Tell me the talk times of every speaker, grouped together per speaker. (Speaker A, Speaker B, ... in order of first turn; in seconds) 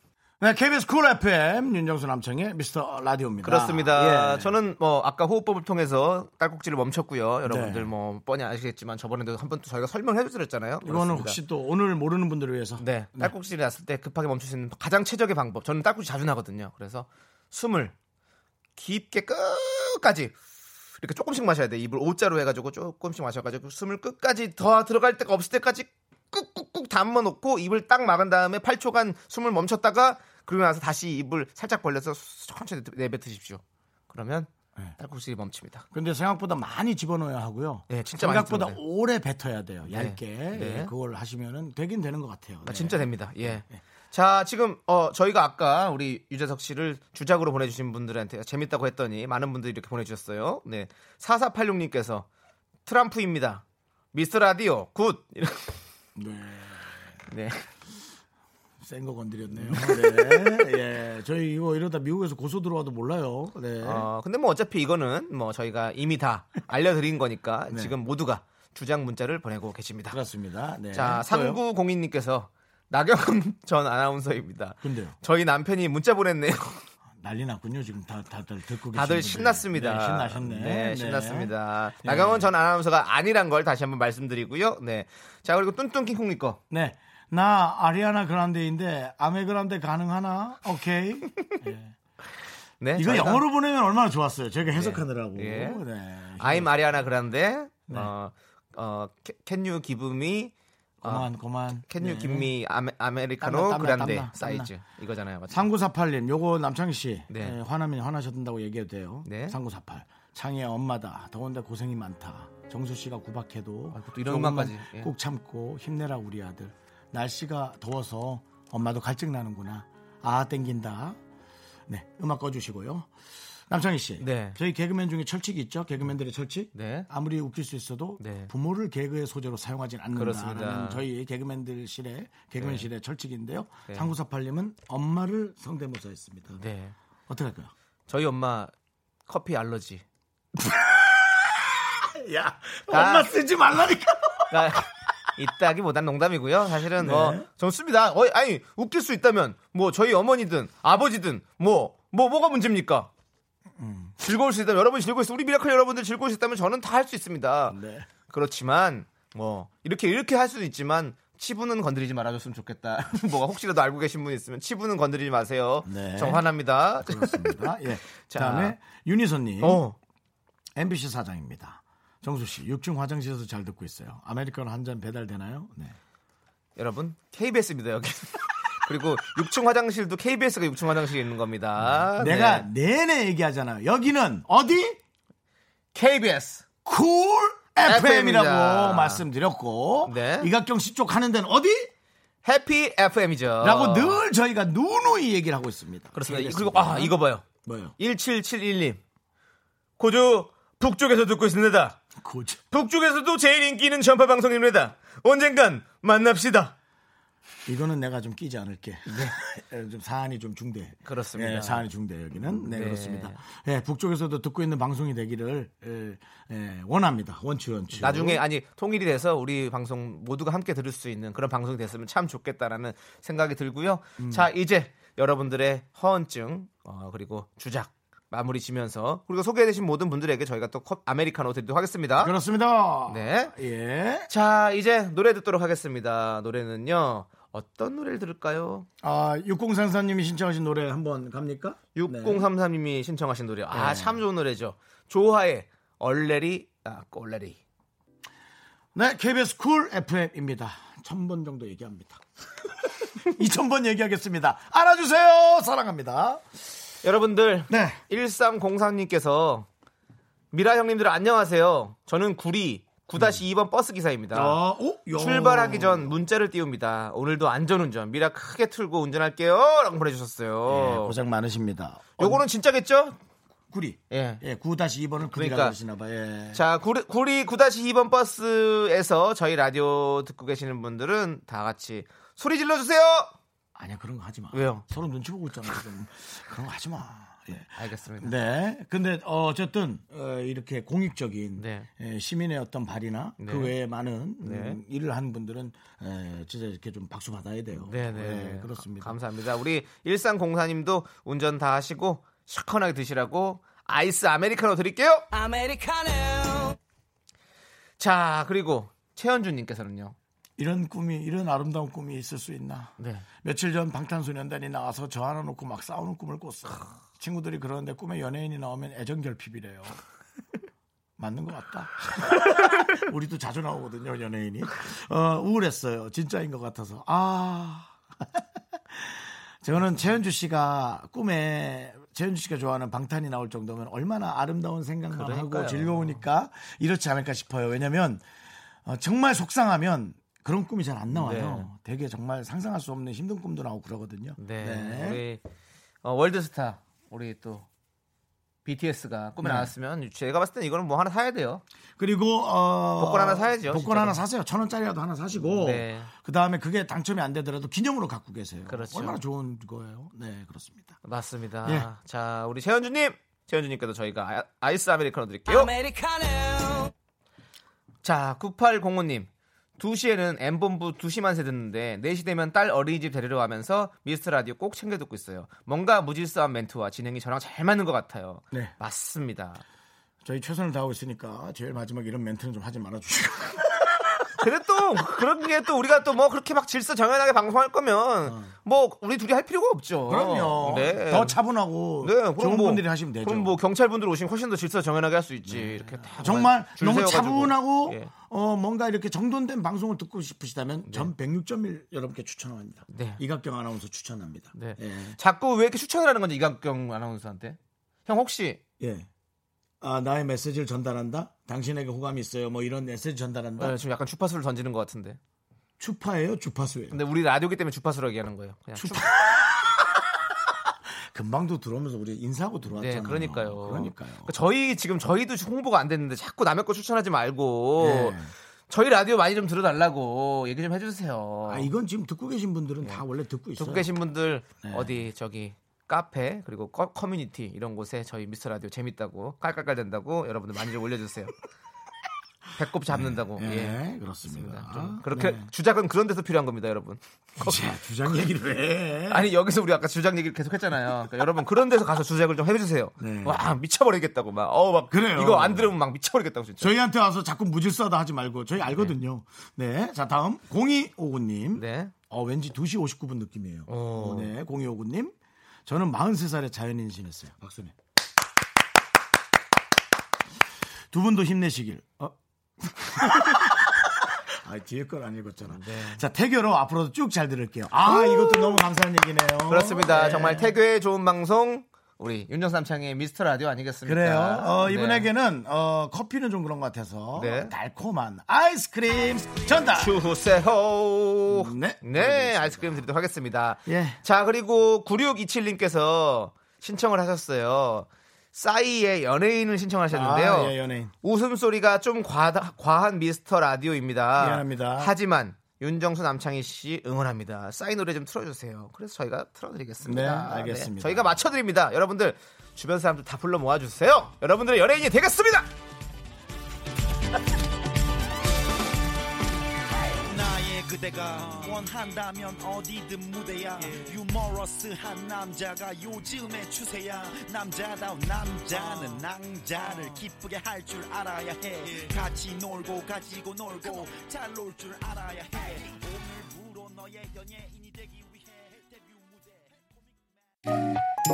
Speaker A: 0.4-4.5, 7.5-7.9, 10.8-13.3, 35.9-43.8, 56.1-57.0, 58.8-64.0, 70.1-71.6, 74.8-75.1, 77.2-82.5, 86.7-91.9, 93.0-97.0, 101.0-102.5, 103.4-104.7, 105.5-121.2, 121.9-123.1, 123.7-136.6, 137.3-137.7, 140.6-144.6, 147.0-147.5, 153.8-154.2, 157.7-158.1, 165.8-166.5, 167.0-169.8, 170.8-175.9, 181.9-185.0, 186.8-191.9, 193.6-197.9, 202.2-202.6, 207.7-218.4, 224.2-224.5, 232.2-234.3, 239.0-242.5, 243.7-244.2, 248.9-256.4, 257.7-258.0, 264.3-266.1, 270.7-272.4, 273.7-276.6, 283.7-299.1, 310.6-320.0, 321.2-338.2, 338.8-345.2, 349.4-349.7, 352.0-361.0, 380.2-384.3, 388.2-388.5, 390.1-393.6, 395.5-405.2, 408.8-409.1, 409.8-413.8, 415.8-417.0, 418.8-424.3, 427.8-428.3, 431.5-433.9, 434.6-435.0, 442.9-445.5, 447.4-449.3, 453.0-453.4, 454.9-455.7, 456.6-465.1, 465.6-467.7, 470.9-480.6, 483.8-490.0, 491.3-492.8, 493.6-494.0, 499.9-500.9, 504.2-504.9, 509.8-511.2
Speaker B: 3.4-11.4, 12.8-17.9, 18.8-20.3, 21.0-35.8, 37.9-38.8, 39.9-40.9, 42.6-52.2, 52.9-55.8, 57.3-57.6, 59.6-60.6, 63.8-70.2, 70.9-76.8, 78.9-86.6, 92.8-93.4, 94.7-95.8, 96.4-101.3, 101.8-105.7, 107.3-107.6, 109.2-109.5, 113.9-115.1, 124.2-124.6, 126.7-127.1, 128.2-128.5, 130.1-131.0, 132.6-132.9, 136.6-136.9, 138.1-138.7, 139.3-140.0, 142.9-143.3, 144.5-153.1, 154.2-157.8, 158.3-167.7, 168.3-168.8, 169.6-169.9, 176.8-182.7, 185.9-186.6, 187.8-189.2, 190.0-190.5, 192.4-194.2, 196.1-197.4, 198.0-199.0, 200.0-202.0, 202.7-206.7, 209.1-209.3, 211.0-211.9, 212.5-213.4, 217.9-232.3, 233.1-233.5, 234.3-238.9, 241.9-247.6, 257.0-259.7, 260.5-264.6, 265.1-271.2, 272.2-273.1, 274.1-274.4, 275.3-275.8, 276.5-283.3, 284.5-284.8, 287.8-288.4, 291.6-291.9, 293.4-293.7, 294.4-294.8, 297.8-305.2, 308.0-310.1, 313.0-313.2, 335.1-336.2, 341.1-341.7, 344.4-345.4, 346.0-347.6, 348.6-351.6, 353.0-354.2, 355.4-356.1, 358.7-359.2, 361.0-365.7, 368.0-379.6, 384.4-391.4, 392.0-398.1, 402.9-403.2, 404.5-408.6, 413.6-415.2, 416.9-419.1, 422.8-428.2, 428.7-431.7, 433.6-441.3, 442.6-447.6, 449.1-456.7, 458.6-458.9, 461.6-461.9, 463.7-464.3, 475.5-476.0, 477.9-478.6, 479.5-485.1, 487.1-487.5, 489.7-515.5
Speaker C: 305.3-306.8, 365.5-366.9
Speaker D: 520.0-539.7